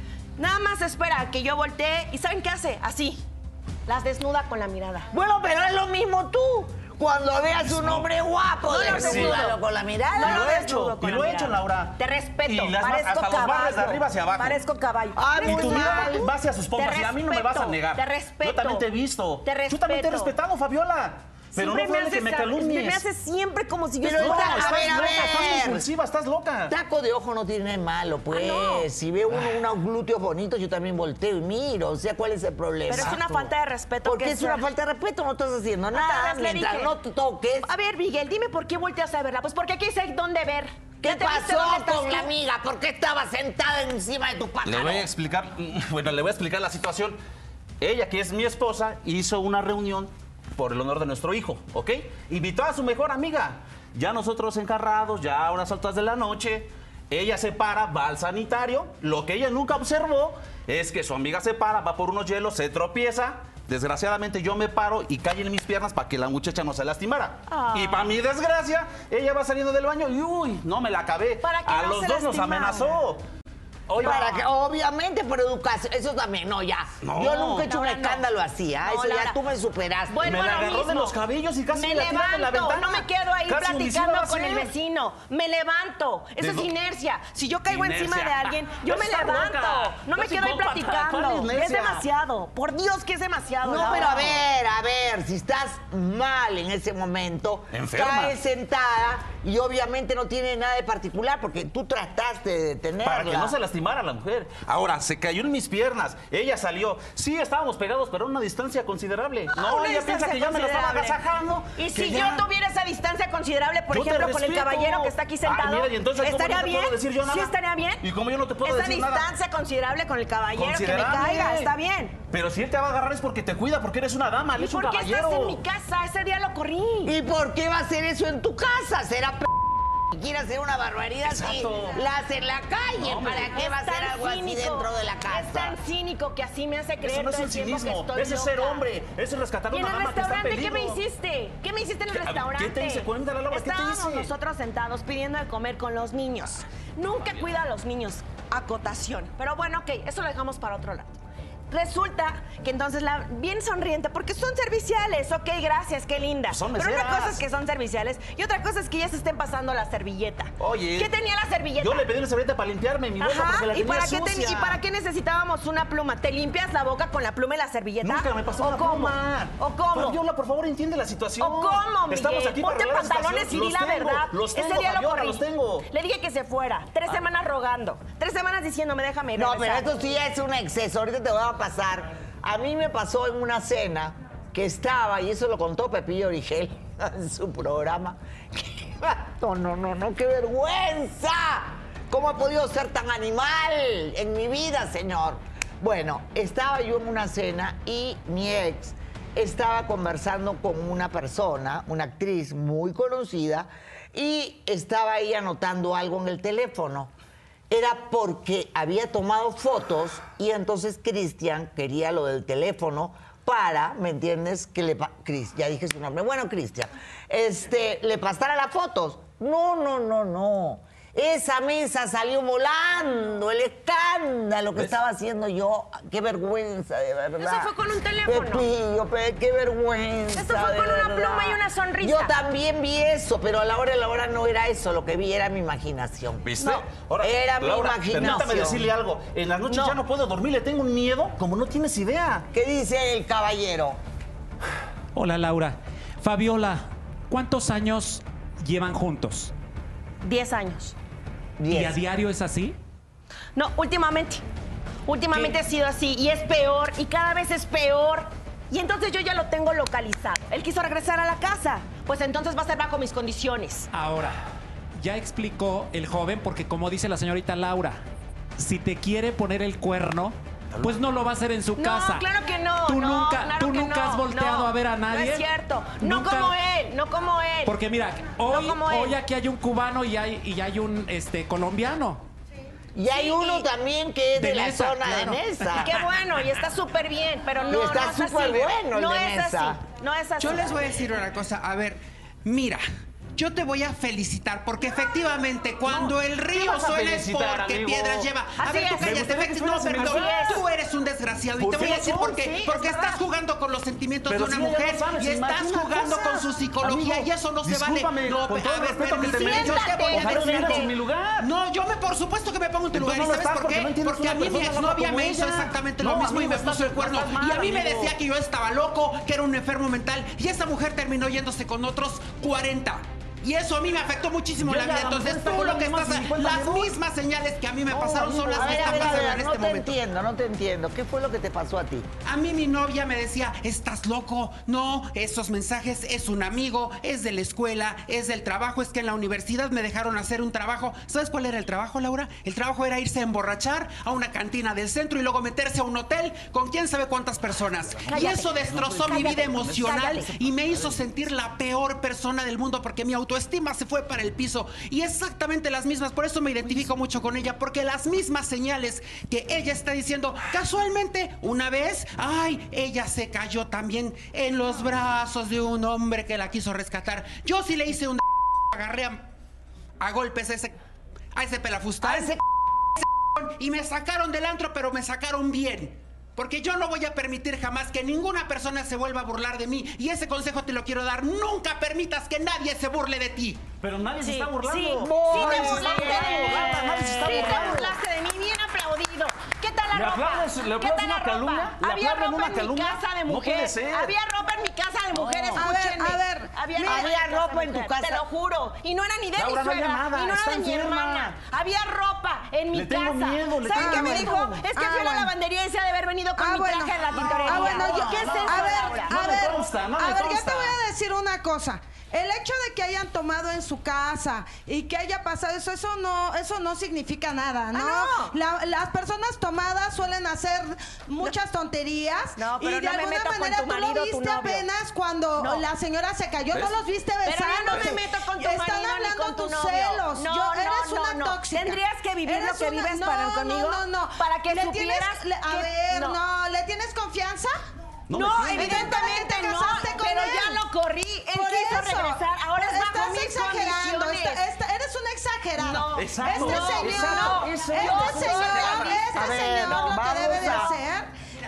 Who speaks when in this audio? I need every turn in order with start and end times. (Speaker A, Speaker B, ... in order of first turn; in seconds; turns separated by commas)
Speaker A: 0.4-3.2, Speaker A: 3.9-5.1, Speaker B: 5.1-10.6, Speaker C: 7.7-8.1, Speaker A: 8.7-9.6, Speaker C: 8.9-9.4, Speaker A: 10.1-16.2, Speaker C: 10.2-14.6, Speaker B: 15.2-16.3, Speaker C: 15.4-23.0, Speaker A: 16.7-18.9, Speaker A: 19.4-20.3, Speaker A: 21.5-25.6, Speaker B: 24.0-25.8, Speaker C: 24.1-26.7, Speaker B: 26.7-33.5, Speaker A: 28.3-28.9, Speaker A: 32.9-34.6, Speaker B: 34.0-37.7, Speaker A: 35.9-36.9, Speaker A: 37.6-42.3, Speaker B: 41.0-45.1, Speaker C: 44.6-47.2, Speaker C: 47.8-73.2, Speaker A: 67.5-68.1, Speaker A: 71.4-73.0, Speaker C: 73.9-74.3, Speaker A: 74.0-74.4, Speaker B: 74.0-80.3, Speaker C: 77.0-77.7, Speaker A: 77.4-78.2, Speaker A: 78.8-79.4, Speaker A: 80.1-81.2, Speaker C: 80.2-84.7, Speaker A: 81.7-94.4, Speaker C: 86.4-86.7, Speaker C: 87.7-92.1, Speaker B: 93.6-103.5, Speaker C: 97.7-98.3, Speaker C: 103.0-112.5, Speaker A: 109.5-111.2, Speaker A: 111.8-118.0, Speaker C: 113.9-119.3, Speaker A: 118.6-122.2, Speaker C: 120.5-121.7, Speaker C: 122.3-125.6, Speaker A: 124.6-127.1, Speaker B: 127.0-135.8, Speaker C: 131.2-132.0, Speaker C: 133.0-133.5, Speaker A: 133.4-138.8, Speaker C: 137.0-141.0, Speaker A: 139.7-151.2, Speaker C: 142.1-144.3, Speaker A: 151.7-162.1, Speaker C: 156.5-157.4, Speaker C: 160.6-161.1, Speaker C: 161.8-164.8, Speaker A: 163.2-170.2, Speaker C: 168.0-175.9, Speaker A: 171.4-179.9, Speaker B: 179.3-207.1, Speaker B: 207.7-227.7, Speaker A: 227.4-228.7, Speaker B: 228.2-238.9, Speaker A: 230.3-232.3, Speaker C: 236.4-242.4, Speaker B: 242.5-244.0, Speaker D: 245.1-249.5, Speaker A: 250.2-250.9, Speaker B: 251.6-252.0, Speaker D: 251.7-252.7, Speaker A: 253.5-254.4, Speaker A: 255.1-263.9, Speaker D: 255.3-255.6, Speaker D: 263.9-264.4, Speaker D: 265.0-268.0, Speaker D: 268.6-272.2, Speaker A: 271.8-277.8, Speaker D: 272.8-275.5, Speaker D: 276.0-276.6, Speaker D: 277.6-282.2, Speaker A: 278.4-279.2, Speaker B: 282.9-285.9, Speaker A: 283.1-283.7, Speaker D: 284.3-286.0, Speaker A: 285.8-290.8, Speaker B: 287.7-289.8, Speaker E: 290.4-292.8, Speaker E: 293.4-330.0, Speaker C: 295.9-298.3, Speaker A: 298.6-299.1, Speaker C: 299.0-300.6, Speaker A: 299.9-300.6, Speaker C: 301.6-302.7, Speaker A: 302.1-303.2, Speaker C: 304.3-311.5, Speaker A: 309.2-310.9, Speaker C: 312.9-318.1, Speaker C: 324.6-326.9, Speaker C: 327.9-329.4, Speaker B: 328.5-332.1, Speaker E: 332.2-369.2, Speaker C: 348.0-351.0, Speaker A: 348.1-348.5, Speaker A: 349.0-350.3, Speaker E: 370.0-370.8, Speaker E: 371.3-372.4, Speaker E: 373.0-383.6, Speaker C: 383.8-387.9, Speaker A: 384.2-409.3, Speaker B: 385.0-386.6, Speaker B: 387.3-387.9, Speaker C: 389.9-394.1, Speaker C: 395.1-395.6, Speaker F: 395.5-397.0, Speaker B: 396.8-398.2, Speaker C: 399.4-401.4, Speaker C: 402.7-404.4, Speaker F: 403.7-405.3, Speaker F: 406.4-437.6, Speaker C: 407.1-410.8, Speaker A: 417.7-418.4, Speaker A: 422.4-424.6, Speaker A: 425.4-425.6, Speaker C: 426.5-426.8, Speaker A: 427.2-436.2, Speaker C: 438.1-439.1, Speaker A: 438.1-444.4, Speaker F: 438.4-440.6, Speaker F: 441.3-451.1, Speaker A: 445.6-450.0, Speaker C: 445.9-449.1, Speaker B: 449.1-450.7